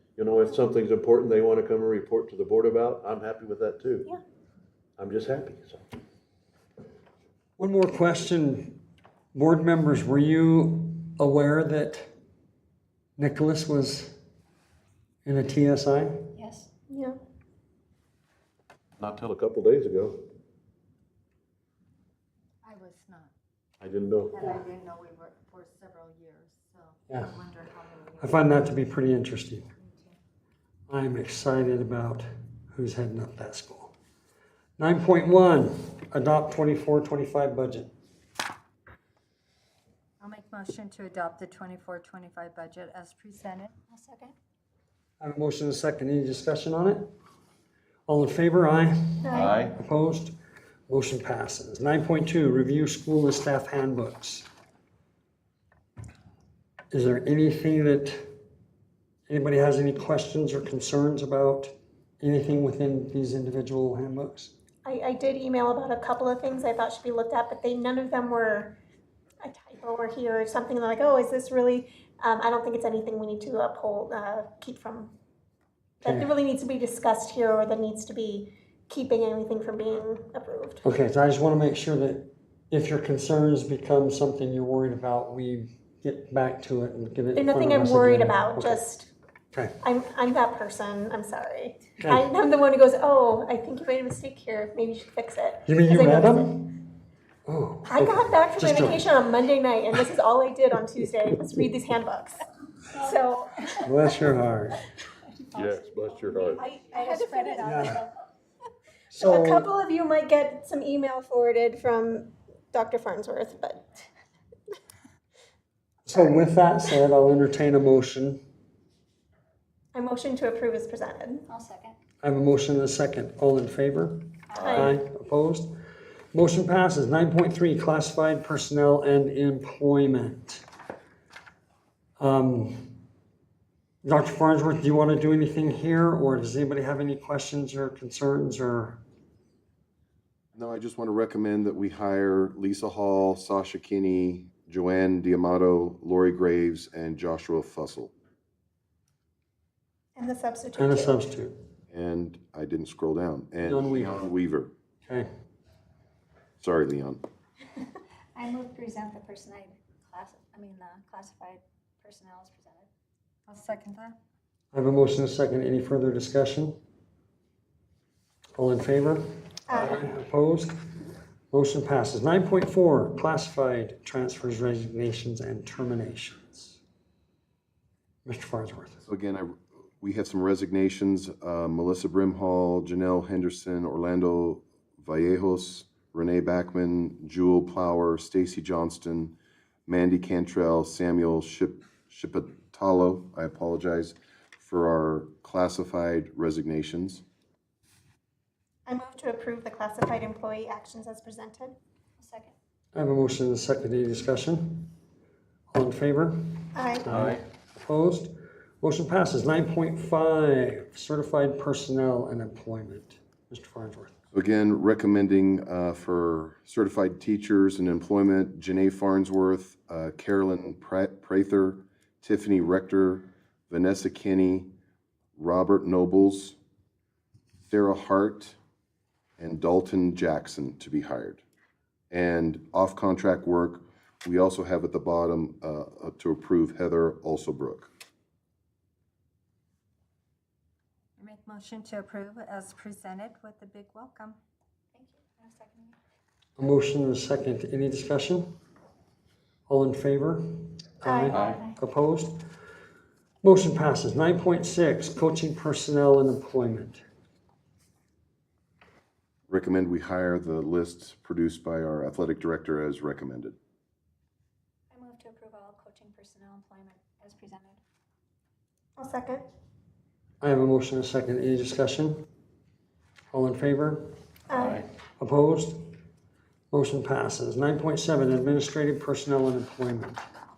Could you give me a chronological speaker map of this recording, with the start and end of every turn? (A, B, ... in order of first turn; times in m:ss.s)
0:00.2-0:04.1 A
0:05.0-0:05.8 A
0:07.6-0:08.8 B
0:09.3-0:12.1 B
0:13.2-0:14.2 B
0:15.2-0:16.3 B
0:16.4-0:16.7 C
0:16.9-0:17.2 D
0:19.0-0:20.2 A
0:22.6-0:23.3 E
0:23.8-0:24.4 A
0:24.3-0:27.6 E
0:27.2-0:28.4 C
0:28.2-0:29.6 B
0:30.9-0:33.9 B
0:34.8-0:37.9 B
0:40.2-0:43.7 E
0:43.9-0:44.3 C
0:45.2-0:47.1 B
0:48.1-0:50.3 B
0:49.2-0:49.6 D
0:49.3-0:49.8 A
0:50.9-0:54.4 B
0:56.9-0:58.3 B
0:59.3-1:04.5 B
1:04.8-1:08.8 D
1:09.4-1:15.1 D
1:16.0-1:16.4 B
1:16.0-1:20.8 D
1:20.8-1:28.8 B
1:27.3-1:29.1 D
1:29.5-1:29.8 B
1:29.8-1:36.7 D
1:32.0-1:32.3 B
1:35.6-1:36.8 B
1:37.5-1:39.1 B
1:37.8-1:42.4 D
1:43.0-1:43.7 D
1:43.8-1:44.8 B
1:45.4-1:48.1 C
1:45.5-1:46.6 A
1:46.5-1:47.8 D
1:47.6-1:48.0 B
1:49.1-1:49.7 B
1:49.2-1:54.0 D
1:56.0-1:58.4 B
1:59.9-2:01.4 D
2:01.5-2:02.0 C
2:02.2-2:05.7 B
2:04.5-2:04.8 C
2:04.5-2:04.9 D
2:06.3-2:10.6 B
2:12.2-2:13.0 B
2:14.0-2:19.0 B
2:20.5-2:28.1 F
2:30.2-2:31.2 D
2:30.8-2:31.6 B
2:31.9-2:34.7 F
2:33.7-2:34.2 B
2:36.6-2:37.2 F
2:38.4-2:42.9 C
2:43.5-2:44.2 E
2:44.7-2:46.8 B
2:48.6-2:50.7 B
2:49.7-2:50.0 D
2:51.5-2:56.8 B
2:58.2-2:59.0 B
2:59.1-3:09.3 F
3:09.9-3:17.2 F
3:18.8-3:21.8 D
3:22.2-3:22.5 C
3:22.9-3:24.9 B
3:25.7-3:34.1 B
3:26.7-3:27.1 D
3:34.3-3:44.7 F
3:45.4-3:46.6 F
3:47.7-3:48.6 F
3:49.4-3:51.4 F
3:52.1-3:57.9 F
4:01.2-4:04.4 E
4:04.9-4:06.0 C
4:06.6-4:08.5 B
4:09.7-4:12.4 B
4:11.0-4:11.3 D
4:11.4-4:11.8 C
4:13.4-4:17.0 B
4:19.5-4:23.6 F
4:24.9-4:27.8 C
4:29.0-4:29.4 D
4:30.4-4:32.2 B
4:33.3-4:34.0 B
4:34.5-4:34.8 D
4:35.2-4:35.8 B
4:36.7-4:40.2 B